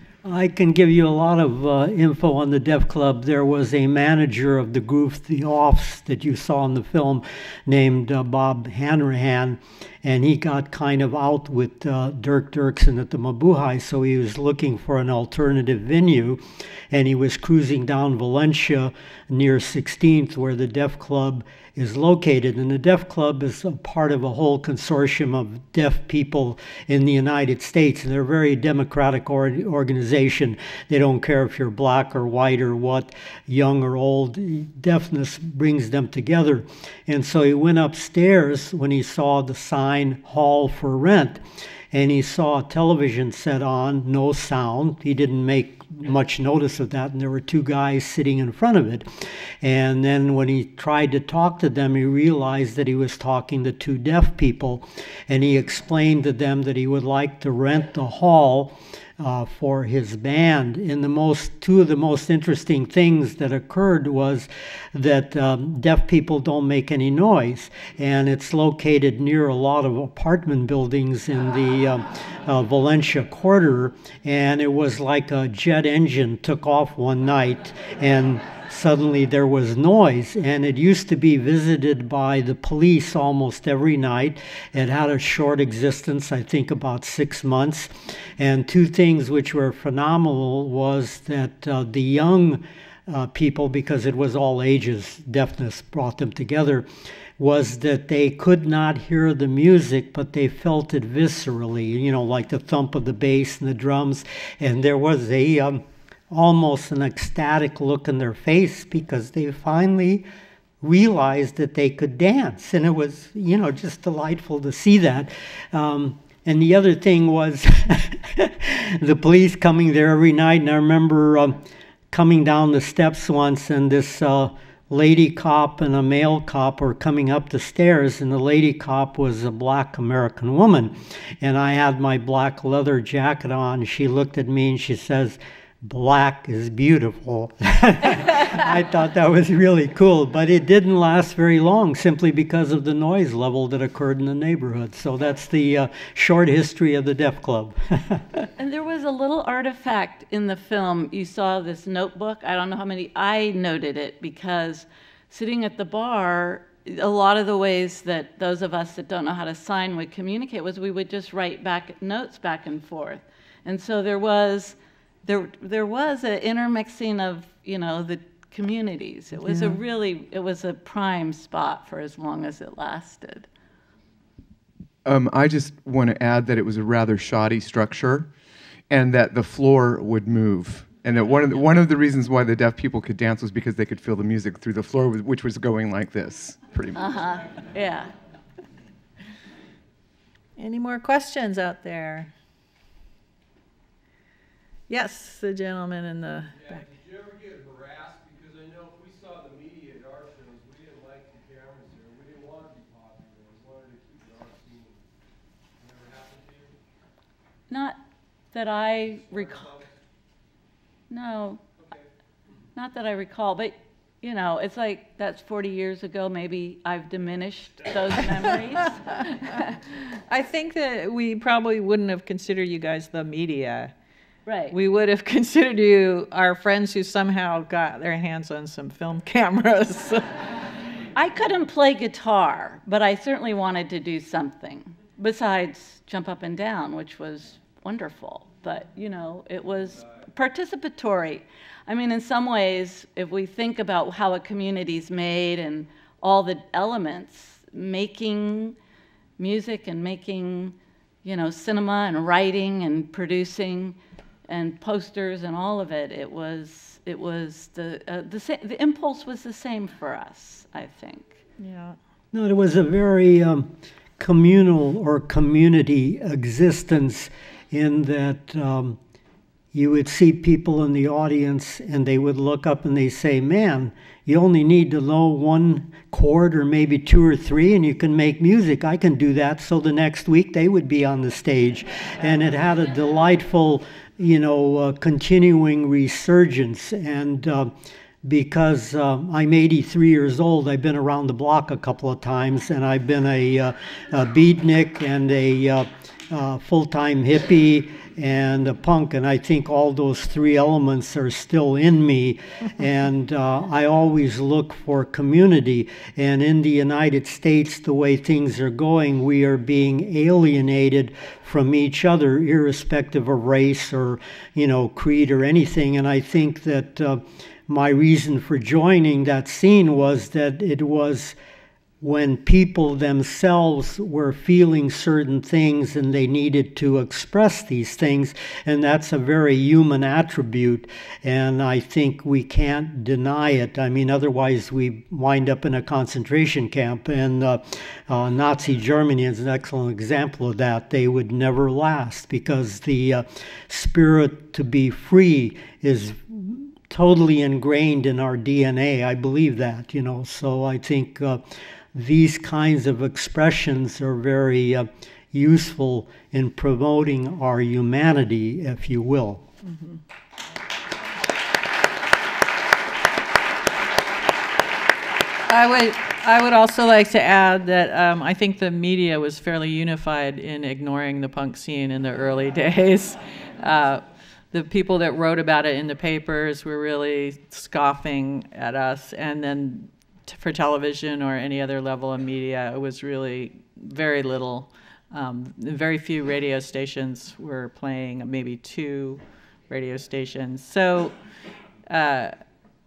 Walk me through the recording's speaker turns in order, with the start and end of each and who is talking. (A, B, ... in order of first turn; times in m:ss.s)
0:00.2-0:16.4 A
0:16.9-0:41.4 A
0:41.9-0:49.1 A
0:49.6-1:36.9 A
1:37.4-1:50.2 A
1:50.8-2:28.4 A
2:28.6-2:53.5 B
2:55.0-2:58.3 C
2:58.9-3:07.4 C
3:06.9-3:08.1 B
3:10.6-3:12.3 D
3:14.9-3:16.9 D
3:16.8-3:25.0 E
3:25.8-3:26.7 E
3:27.7-3:28.0 B
3:28.5-3:29.8 B
3:29.4-3:29.7 E
3:31.1-3:31.6 B
3:32.8-3:39.8 B
3:40.3-3:43.9 D
3:44.5-3:44.8 B
3:44.7-3:50.2 D
3:51.2-4:08.8 B
4:09.4-4:14.0 B
4:14.5-4:21.4 B
4:21.6-4:22.0 D
4:22.3-4:29.0 A
4:29.7-4:47.7 A
4:48.2-5:21.4 A
5:22.0-5:59.4 A
5:59.6-6:00.0 D
6:05.5-6:31.1 D
6:31.9-6:32.4 D